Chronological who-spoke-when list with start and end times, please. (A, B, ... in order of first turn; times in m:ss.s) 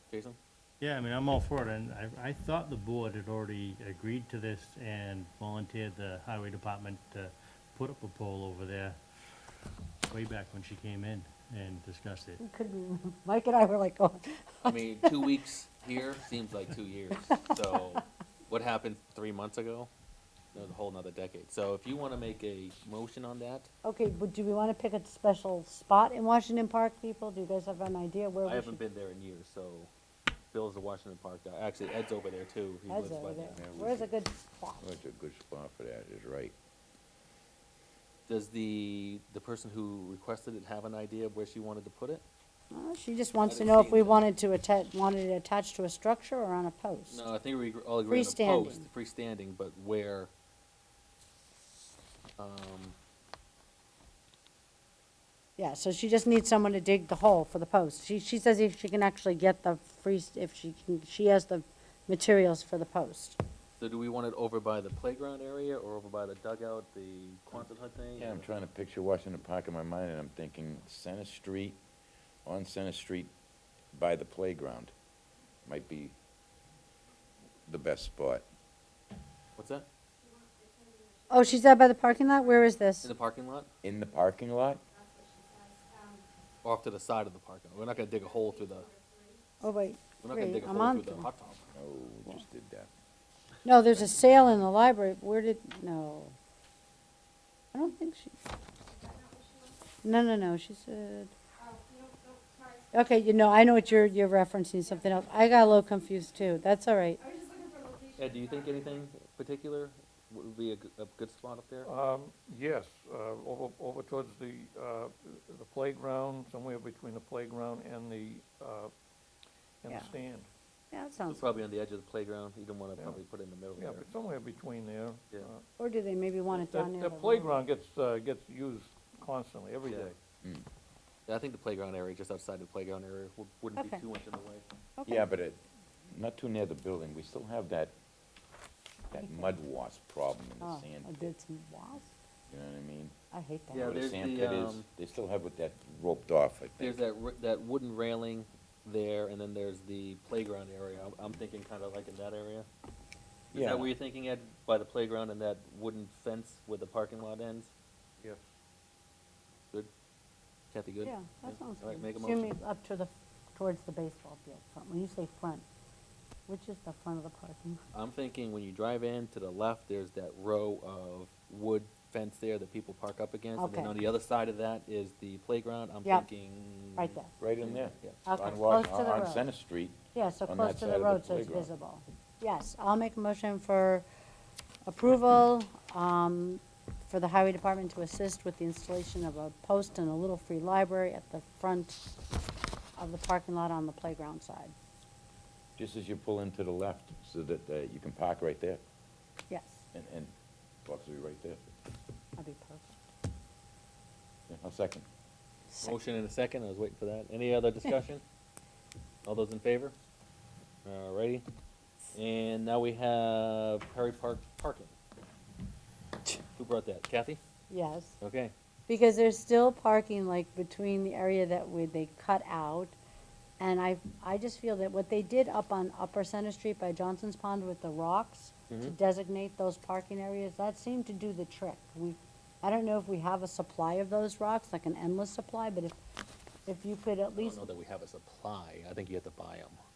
0:00.1-0:00.4 A
0:00.8-0:09.0 B
0:10.1-0:12.4 B
0:12.4-0:15.3 C
0:14.6-0:19.9 A
0:17.3-0:18.0 C
0:20.5-0:23.7 A
0:23.8-0:28.8 C
0:28.4-0:29.9 A
0:30.5-0:33.6 A
0:32.9-0:34.8 C
0:33.5-0:34.1 D
0:34.8-0:36.5 D
0:38.3-0:42.2 A
0:42.7-0:47.3 C
0:43.4-0:44.2 A
0:47.1-0:50.3 A
0:48.1-0:48.8 C
0:52.4-0:53.0 A
0:55.6-1:03.4 C
1:03.8-1:08.4 A
1:08.2-1:11.8 D
1:12.4-1:13.3 D
1:13.9-1:14.9 D
1:15.7-1:16.1 D
1:17.7-1:18.4 D
1:19.6-1:19.9 A
1:21.3-1:23.1 C
1:23.0-1:23.7 A
1:23.8-1:24.8 D
1:26.6-1:28.9 A
1:29.6-1:31.3 C
1:30.2-1:31.6 A
1:31.7-1:32.9 D
1:33.6-1:36.3 C
1:37.7-1:38.4 C
1:40.0-1:41.3 C
1:42.9-1:47.3 C
1:48.1-1:51.9 A
1:51.8-1:58.9 E
1:59.8-2:00.5 E
1:59.9-2:00.1 C
2:00.9-2:01.4 C
2:01.2-2:04.1 A
2:03.8-2:05.6 E
2:05.8-2:07.6 C
2:06.5-2:10.2 E
2:09.8-2:10.1 A
2:11.3-2:14.6 A
2:13.8-2:14.0 C
2:15.0-2:15.3 C
2:15.1-2:17.9 D
2:19.1-2:21.1 D
2:19.2-2:19.6 C
2:20.6-2:22.1 C
2:22.5-2:23.1 D
2:23.3-2:24.0 C
2:23.7-2:24.8 A
2:23.8-2:27.0 D
2:26.8-2:32.7 A
2:33.5-2:37.7 A
2:33.5-2:33.9 D
2:38.2-2:38.5 E
2:40.7-2:42.5 A
2:41.0-2:45.6 C
2:46.5-2:47.8 C
2:47.9-2:58.2 A
2:53.6-2:53.9 C
2:57.0-2:57.3 C
2:57.4-3:01.7 D
2:58.2-2:59.4 C
3:00.1-3:04.0 C
3:04.9-3:12.1 C
3:13.0-3:14.7 C
3:15.8-3:18.8 D
3:19.5-3:19.8 C
3:19.9-3:20.3 D
3:20.8-3:21.7 D
3:22.4-3:23.0 C
3:24.5-3:25.0 D
3:25.7-3:26.0 C
3:25.8-3:28.2 A
3:29.2-3:29.9 A
3:30.8-3:31.4 A
3:32.1-3:34.9 A
3:36.6-3:37.4 A
3:37.7-3:38.2 C
3:38.2-3:38.5 A
3:38.9-3:42.9 C
3:43.6-3:56.0 C
3:48.7-3:48.9 A
3:56.7-3:57.7 C
3:57.3-3:59.8 A